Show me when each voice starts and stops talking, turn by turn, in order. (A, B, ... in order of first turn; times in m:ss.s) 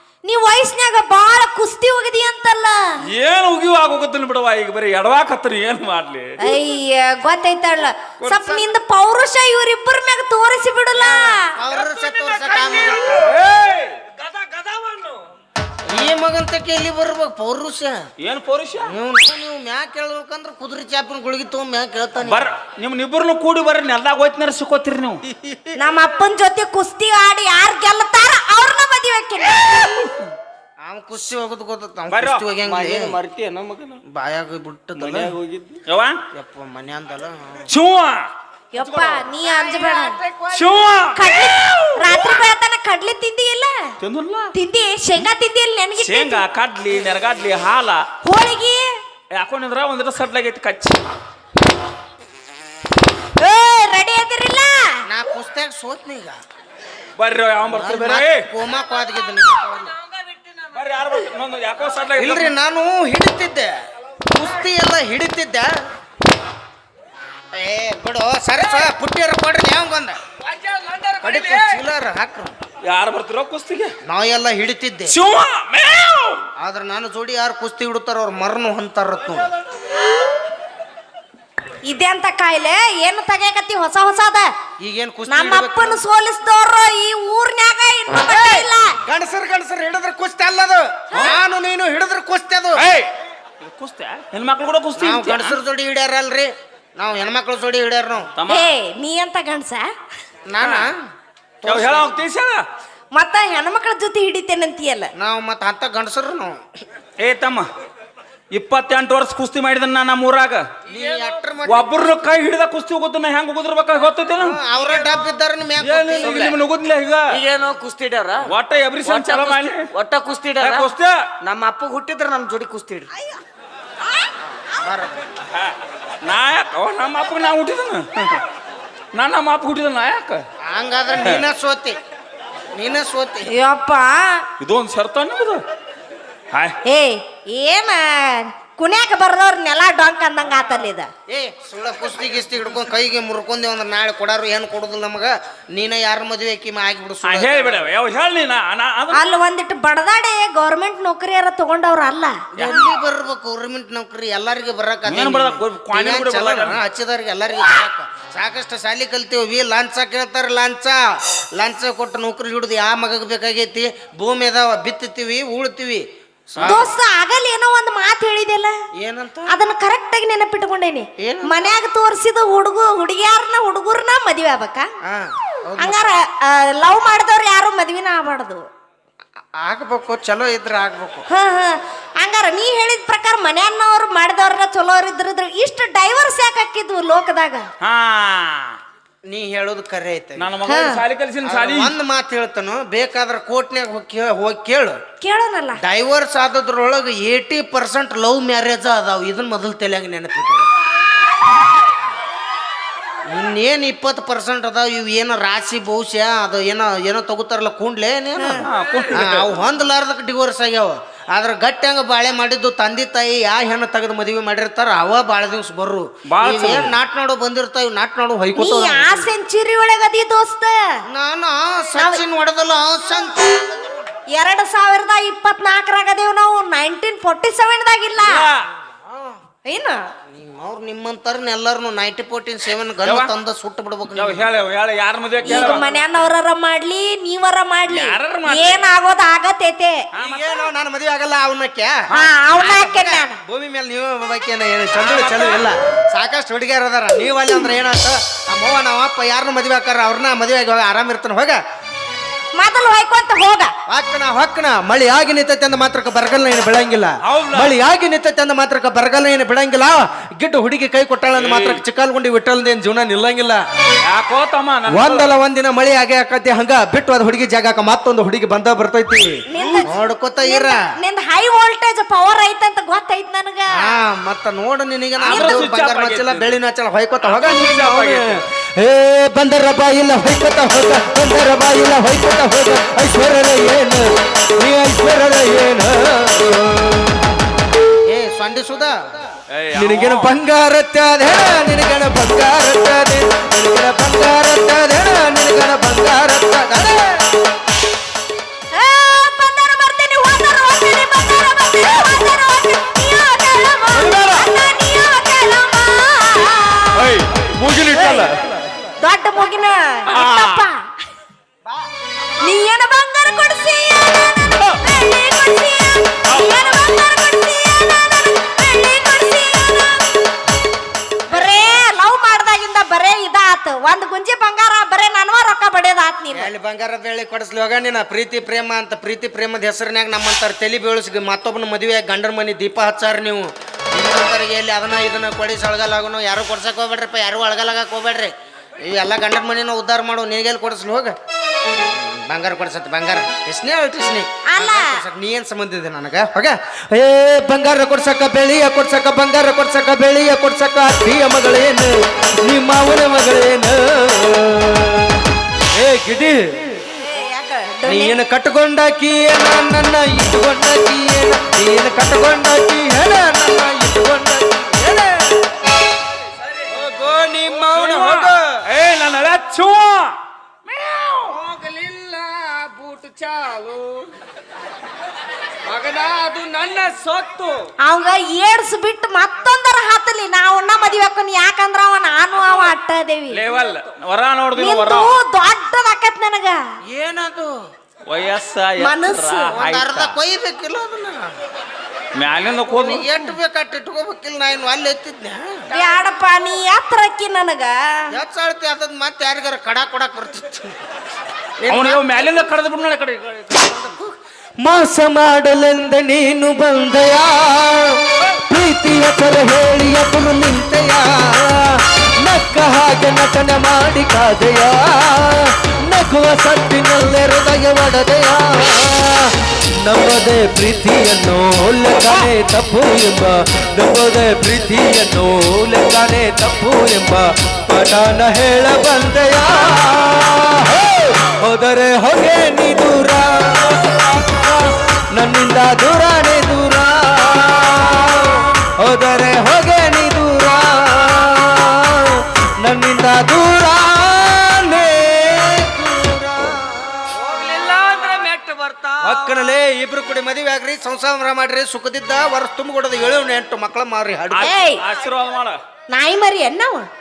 0:00.2-0:03.0 A
0:03.0-0:06.4 B
0:06.4-0:11.6 A
0:08.2-0:08.6 C
0:11.1-0:13.2 C
0:13.2-0:14.0 B
0:14.4-0:15.2 D
0:15.9-0:18.0 C
0:18.2-0:18.9 B
0:18.9-0:22.4 C
0:22.2-0:25.2 B
0:25.3-0:25.8 C
0:25.8-0:29.6 A
0:29.8-0:30.3 B
0:30.8-0:33.2 C
0:32.1-0:34.0 B
0:34.1-0:35.3 C
0:35.0-0:36.2 B
0:36.3-0:37.7 C
0:37.7-0:38.3 B
0:38.7-0:40.2 A
0:38.8-0:40.7 D
0:40.5-0:42.0 B
0:41.1-0:43.9 A
0:44.0-0:44.5 B
0:44.5-0:46.4 A
0:46.0-0:48.1 B
0:48.2-0:49.0 A
0:49.4-0:51.0 B
0:53.4-0:55.0 A
0:55.1-0:56.4 C
0:57.2-0:58.5 B
0:57.7-1:00.0 C
1:00.7-1:02.5 B
1:02.2-1:03.7 C
1:04.3-1:05.7 C
1:07.5-1:10.2 C
1:10.4-1:11.8 D
1:11.2-1:12.6 C
1:12.8-1:14.0 B
1:14.1-1:15.2 C
1:15.1-1:16.5 B
1:16.6-1:19.5 C
1:21.8-1:24.5 A
1:24.8-1:26.0 C
1:25.3-1:29.0 A
1:28.3-1:32.8 C
1:32.8-1:35.6 B
1:35.0-1:38.3 C
1:38.4-1:38.7 B
1:38.5-1:39.9 A
1:40.5-1:41.0 C
1:40.6-1:40.9 B
1:41.6-1:42.1 C
1:41.7-1:42.6 B
1:43.1-1:45.1 A
1:45.2-1:46.6 C
1:47.2-1:47.7 B
1:48.5-1:50.7 B
1:50.9-1:52.0 C
1:50.9-1:51.3 D
1:51.6-1:54.6 B
1:54.4-1:56.4 C
1:55.8-1:57.4 B
1:56.2-1:56.6 D
1:57.3-1:58.5 D
1:58.5-1:59.9 B
1:59.0-2:00.9 D
2:00.6-2:01.2 B
2:01.4-2:03.1 D
2:04.8-2:05.2 C
2:06.2-2:08.4 B
2:09.1-2:10.4 B
2:10.7-2:12.0 C
2:12.8-2:13.5 C
2:13.5-2:14.5 A
2:14.6-2:15.6 B
2:16.5-2:16.8 B
2:16.8-2:21.1 A
2:21.3-2:27.9 C
2:27.2-2:29.2 B
2:29.1-2:32.4 A
2:32.6-2:32.9 B
2:32.6-2:46.9 C
2:35.1-2:36.8 B
2:46.6-2:46.9 B
2:46.6-2:48.8 A
2:49.0-2:49.6 C
2:49.5-2:54.9 A
2:51.2-2:51.7 C
2:55.0-2:56.1 C
2:55.8-2:58.7 A
2:59.6-3:01.3 C
3:01.3-3:07.7 A
3:07.8-3:08.8 B
3:09.3-3:10.6 C
3:10.4-3:11.9 B
3:10.7-3:11.0 A
3:11.4-3:15.0 C
3:15.2-3:15.8 A
3:15.8-3:20.7 C
3:23.3-3:39.3 C
3:28.4-3:28.7 A
3:28.6-3:29.6 B
3:36.3-3:37.0 B
3:38.6-3:41.0 A
3:41.1-3:44.0 C
3:44.3-3:48.5 A
3:48.2-3:48.7 B
3:48.9-3:49.4 C
3:49.7-3:50.0 A
3:50.3-3:54.5 C
3:53.0-3:53.3 B
3:54.2-3:55.9 B
3:55.4-3:56.0 C
3:55.4-4:00.0 A
3:57.9-3:58.8 B
4:00.1-4:00.6 B
4:00.2-4:02.0 C
4:02.1-4:03.4 A
4:02.6-4:11.6 C
4:05.0-4:05.7 B
4:12.6-4:13.7 A
4:13.9-4:23.6 C
4:17.2-4:17.7 B
4:21.3-4:21.8 B
4:24.0-4:25.3 B
4:24.9-4:30.8 C
4:29.5-4:34.0 A
4:29.6-4:29.9 B
4:33.8-4:37.8 C
4:35.2-4:36.6 B
4:35.3-4:35.7 A
4:37.2-4:38.4 B
4:37.4-4:47.2 E
4:48.1-4:49.2 C
4:49.5-4:50.3 B
4:49.7-4:57.0 E
4:58.7-5:07.2 A
5:03.9-5:04.5 B
5:07.0-5:08.5 B
5:07.9-5:08.4 A
5:09.0-5:10.9 A
5:10.1-5:10.6 B
5:12.4-5:20.1 A
5:16.3-5:16.7 B
5:21.3-5:26.5 A
5:26.3-5:41.2 C
5:41.8-5:46.6 C
5:44.5-5:45.0 A
5:46.9-5:55.2 E
5:55.8-5:56.4 E
5:56.9-5:58.2 A
5:57.9-5:58.2 C
5:58.2-6:05.1 E
6:04.4-6:05.3 C
6:06.4-6:08.4 D
6:07.5-6:07.9 E
6:07.7-6:10.2 B
6:10.7-6:11.1 B
6:11.0-6:14.1 D
6:15.6-6:17.7 D
6:17.8-6:23.4 A
6:23.3-6:25.1 B
6:24.6-6:26.6 A
6:26.9-6:27.6 C
6:28.1-6:30.2 B
6:28.8-6:29.6 A
6:29.6-6:31.3 C
6:32.2-6:33.3 B
6:32.7-6:35.7 C
6:35.7-6:38.1 A
6:38.1-6:40.8 C
6:41.6-6:42.0 C
6:41.7-6:44.0 B
6:44.6-7:13.8 E
7:14.3-7:26.7 E
7:25.8-7:26.2 C
7:27.1-7:29.4 D
7:29.0-7:34.6 C
7:34.3-7:35.6 B
7:34.4-7:34.8 A
7:35.9-7:36.9 A